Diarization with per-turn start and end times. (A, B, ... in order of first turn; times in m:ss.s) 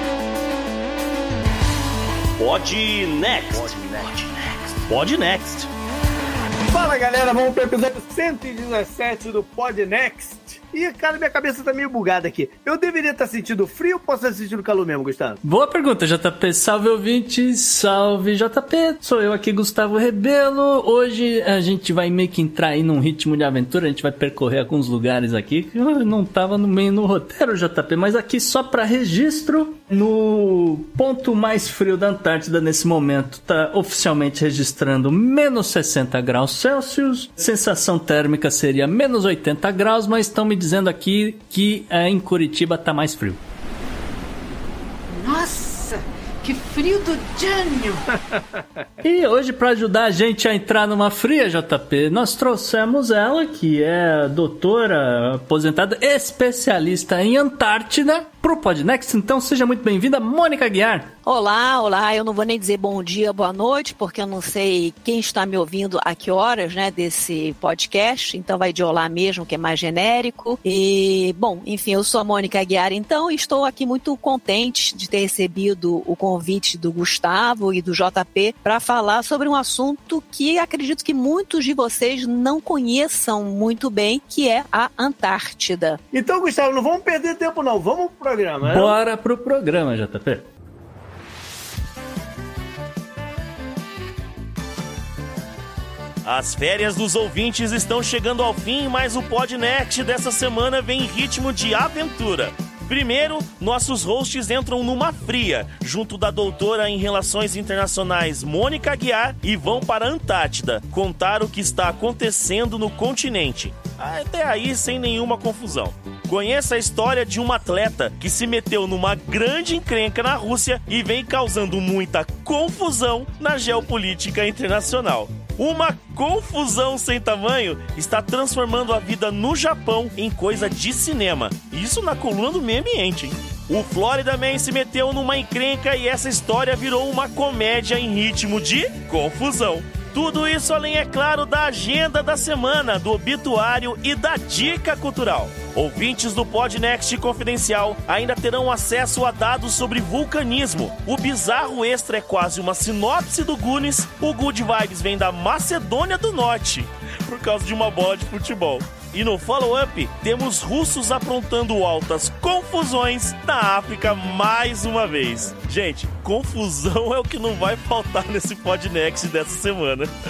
0:02.4-0:05.7 A
0:06.7-0:15.4 B
0:15.4-0:43.4 C
0:45.1-0:48.1 D
0:49.0-1:01.1 C
1:01.3-1:26.0 E
1:26.1-1:29.0 B
1:28.6-1:30.5 C
1:36.2-2:50.1 A